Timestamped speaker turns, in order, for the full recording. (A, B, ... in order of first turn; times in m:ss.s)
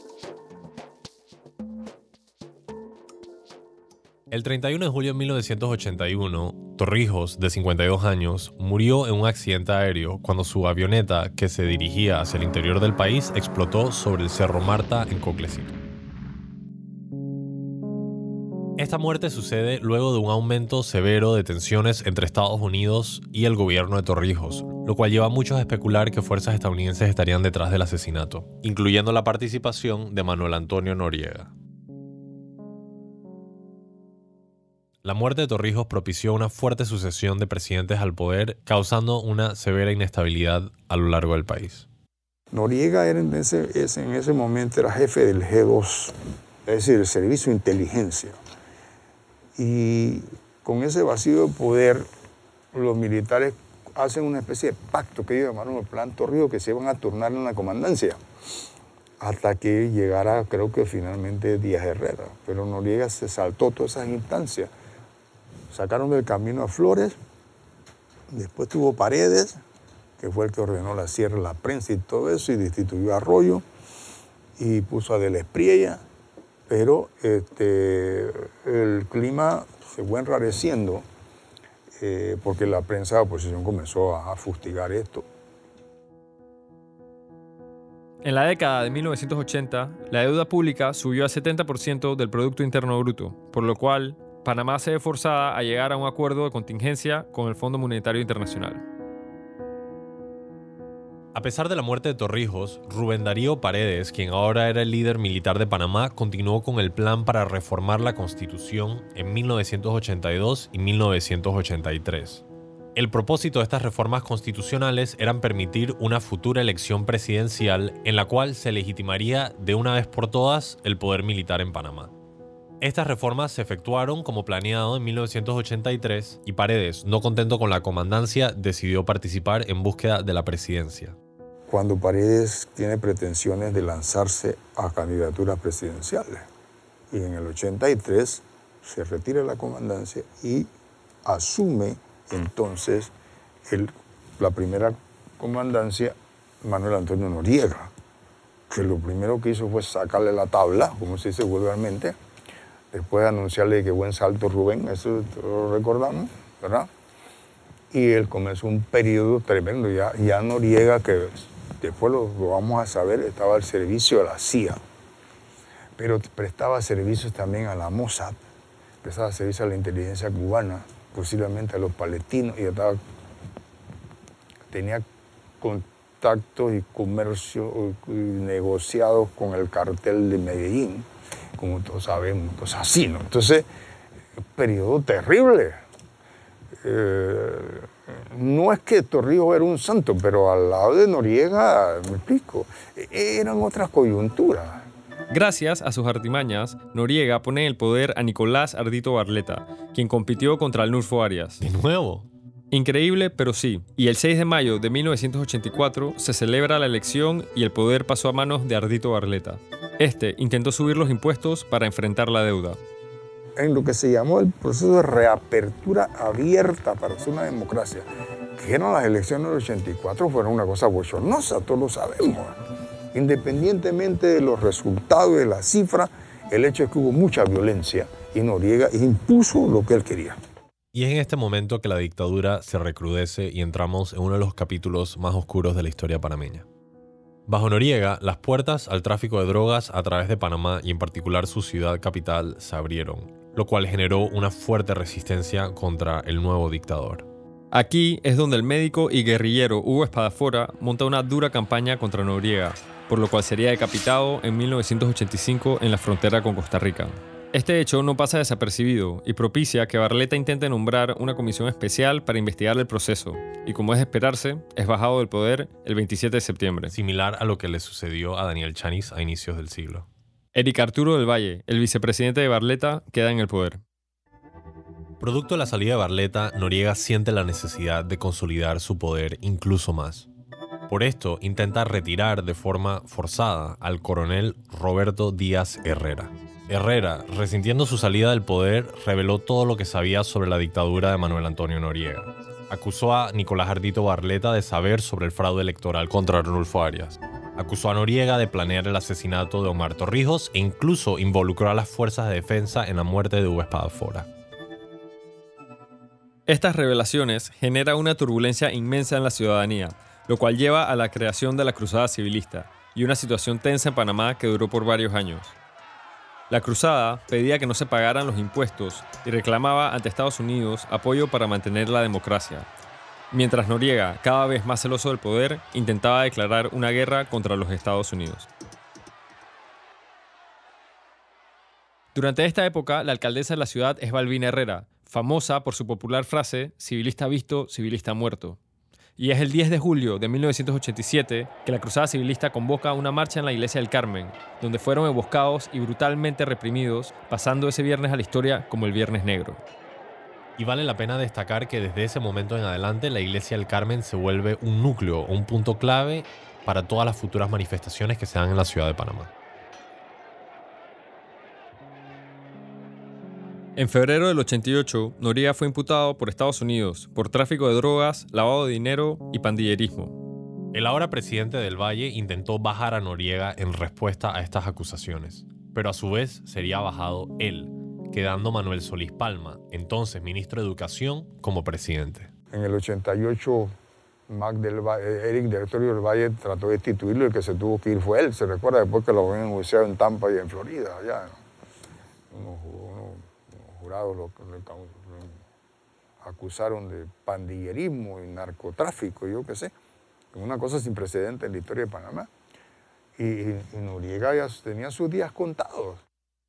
0:04.3-0:15.8 A
0:18.8-0:31.5 A
0:35.0-0:41.9 A
0:42.5-0:48.4 B
0:49.6-0:52.1 B
0:52.7-0:58.2 B
0:59.2-1:04.7 B
1:05.7-1:07.2 B
1:08.3-1:09.6 B
1:10.2-1:13.6 B
1:14.6-1:16.0 B
1:16.7-1:21.0 B
1:22.0-1:25.2 B
1:28.2-1:38.8 C
1:41.3-1:52.4 A
1:53.0-2:02.1 A
2:02.8-2:11.2 A
2:11.7-2:16.5 B
2:17.1-2:20.7 B
2:21.2-2:23.1 B
2:23.7-2:27.9 B
2:28.7-2:32.2 B
2:32.9-2:36.9 B
2:37.9-2:44.8 B
2:46.0-2:48.4 B
2:49.0-2:53.0 B
2:54.7-2:55.0 B
2:55.6-3:03.7 B
3:04.6-3:05.8 B
3:06.8-3:14.9 B
3:15.3-3:21.6 C
3:21.6-3:22.3 A
3:22.7-3:32.8 C
3:33.6-3:42.6 B
3:43.1-3:50.4 B
3:50.9-3:56.7 A
3:57.5-4:07.3 A
4:07.7-4:26.9 C
4:26.9-4:30.1 A
4:30.6-4:33.8 C
4:35.2-4:40.3 A
4:40.9-5:04.3 A
5:06.5-5:15.6 C
5:16.5-5:22.7 C
5:23.3-5:28.5 C
5:32.1-5:38.6 C
5:39.2-5:49.6 C
5:50.6-5:59.3 A
6:03.8-6:10.2 C
6:10.7-6:22.3 A
6:22.5-6:23.7 B
6:24.3-6:31.4 B
6:32.3-6:35.4 B
6:36.2-6:39.7 B
6:40.3-6:42.3 B
6:43.2-6:46.0 B